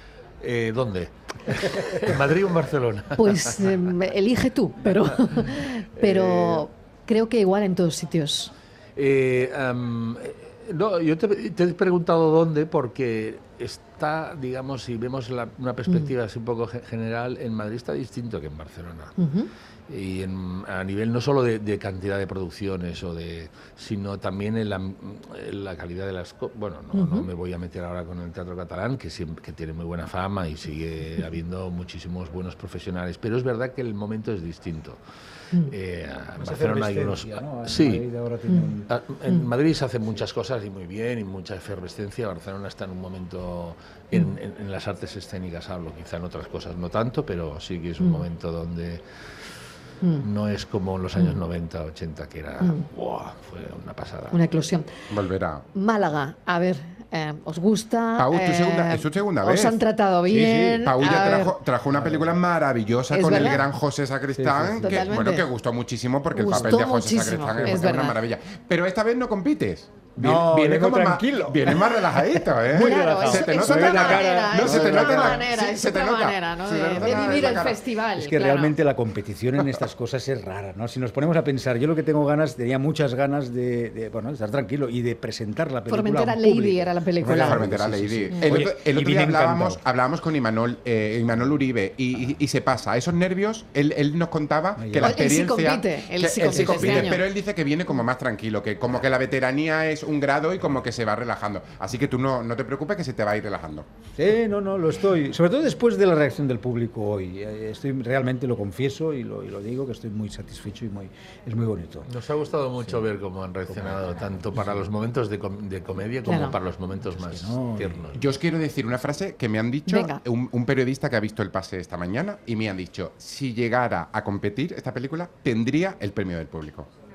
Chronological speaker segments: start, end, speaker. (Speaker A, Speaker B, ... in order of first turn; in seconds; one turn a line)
Speaker A: 0.4-3.9
Speaker B: 3.2-8.5
Speaker A: 4.9-6.7
Speaker A: 8.9-19.2
Speaker B: 15.9-16.1
Speaker B: 19.2-19.5
Speaker A: 19.9-35.0
Speaker B: 26.9-27.3
Speaker A: 35.6-38.0
Speaker C: 36.4-38.9
Speaker A: 38.9-49.5
Speaker A: 50.2-54.4
Speaker B: 54.3-54.9
Speaker D: 55.1-55.6
Speaker B: 55.7-61.5
Speaker D: 58.2-59.8
Speaker C: 60.3-60.9
Speaker D: 60.9-77.8
Speaker C: 61.9-62.4
Speaker B: 63.1-63.6
Speaker C: 63.2-63.7
Speaker C: 64.3-65.2
Speaker B: 64.8-65.5
Speaker B: 66.3-68.2
Speaker C: 66.5-68.0
Speaker C: 70.2-75.5
Speaker B: 72.7-78.8
Speaker C: 76.9-89.8
Speaker B: 85.9-87.7
Speaker D: 87.2-103.8
Speaker B: 88.3-88.6
Speaker C: 94.8-95.2
Speaker B: 95.0-97.2
Speaker C: 96.5-97.2
Speaker C: 104.2-112.1
Speaker A: 112.1-118.2
Speaker C: 112.8-113.1
Speaker C: 113.7-114.8
Speaker B: 116.2-116.5
Speaker C: 117.0-118.2
Speaker D: 118.1-126.9
Speaker B: 119.9-120.2